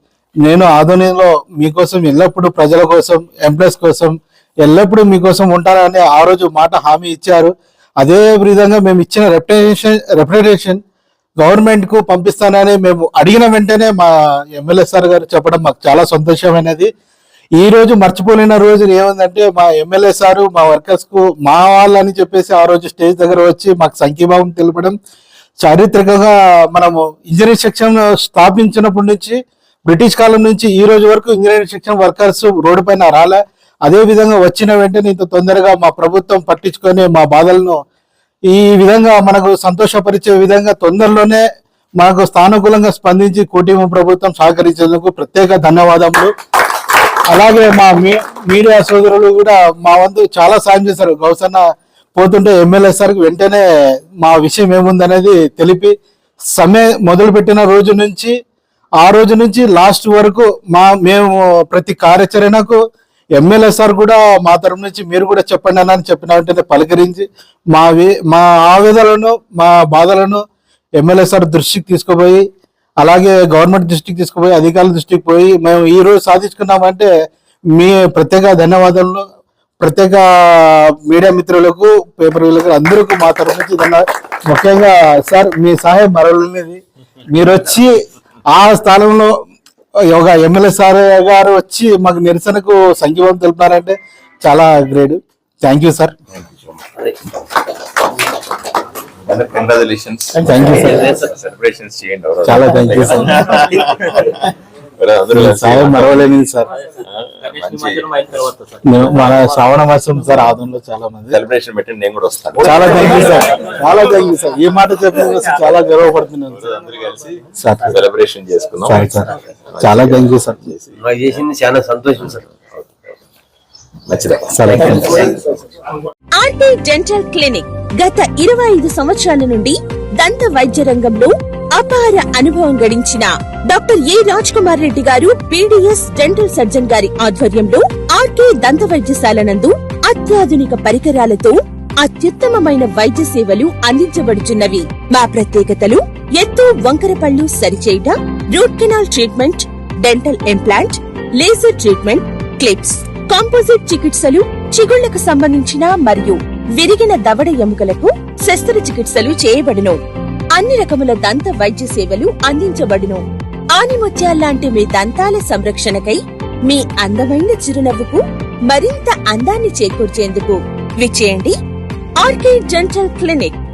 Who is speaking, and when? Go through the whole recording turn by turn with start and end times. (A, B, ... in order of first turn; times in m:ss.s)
0:00.4-0:10.8 A
0:11.4-0:16.9 A
0:17.6-0:25.0 A
0:25.6-0:37.8 A
0:38.5-0:41.4 A
0:42.0-0:46.3 A
0:47.3-0:51.6 A
0:52.1-0:53.6 A
0:54.2-0:55.9 A
0:56.5-0:58.4 A
0:59.0-1:02.8 A
1:03.4-1:10.4 A
1:11.0-1:12.4 A
1:13.0-1:17.1 A
1:17.7-1:19.2 A
1:19.8-1:27.9 A
1:28.5-1:29.3 A
1:30.1-1:36.1 A
1:39.3-1:40.4 B
1:40.3-1:41.1 A
1:40.8-1:41.2 C
1:41.0-1:46.2 B
1:42.4-1:43.7 A
1:45.3-1:46.7 A
1:47.0-1:48.4 B
1:48.8-1:51.4 A
1:51.3-1:53.3 B
1:52.6-1:56.6 A
1:56.6-1:59.2 B
1:57.6-1:58.0 A
1:58.8-2:00.6 A
1:59.7-2:01.0 B
2:01.0-2:02.5 C
2:04.1-2:05.4 B
2:04.5-2:05.1 A
2:04.9-2:05.4 C
2:06.4-2:40.0 D
2:40.5-2:43.2 D
2:43.7-2:51.5 D
2:52.2-2:53.6 D